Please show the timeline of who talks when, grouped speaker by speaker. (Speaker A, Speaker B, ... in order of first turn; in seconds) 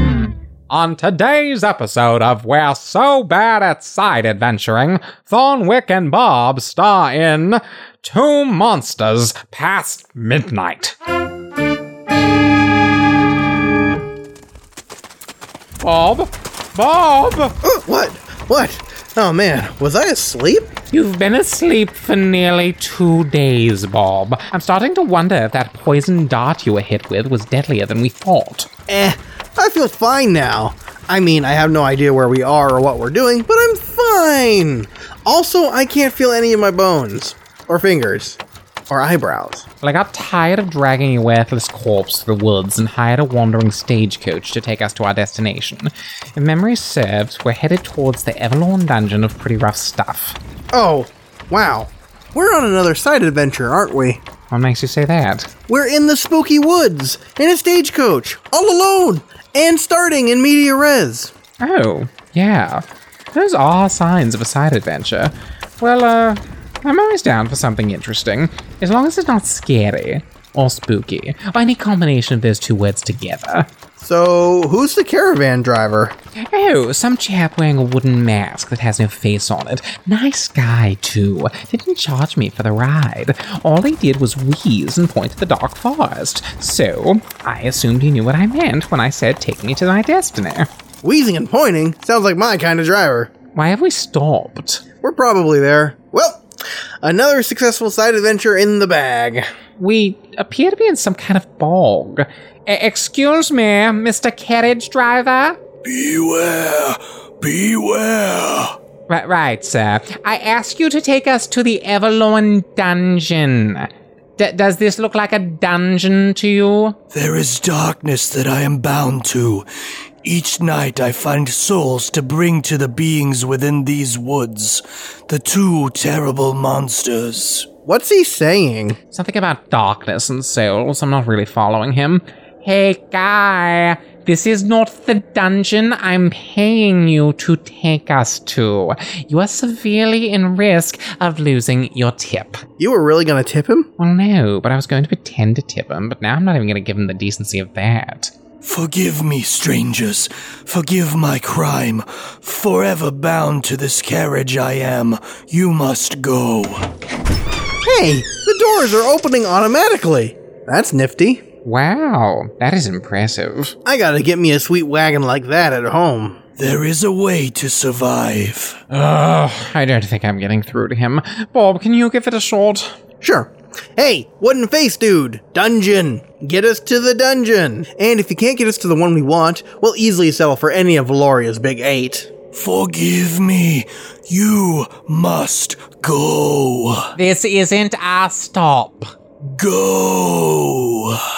Speaker A: 0.7-10.9, 15.8-17.6, 20.9-28.7, 39.8-50.4, 54.5-55.5, 61.6-62.8, 63.3-73.7, 76.5-90.7, 93.5-94.8, 99.8-105.6, 109.1-117.0, 129.1-142.6, 144.0-148.3, 161.6-163.7, 168.9-172.9, 187.2-189.1
Speaker B: 17.6-20.7, 28.9-39.6, 50.7-54.2, 55.7-61.3, 74.0-76.1, 91.0-93.3, 95.0-96.4, 97.0-99.5, 127.8-129.0, 142.8-143.9, 157.8-161.4, 163.8-166.4, 173.2-182.3
Speaker C: 105.8-108.8, 117.1-119.7, 120.2-127.7, 148.6-156.9, 166.6-168.8, 182.5-187.1, 189.5-191.2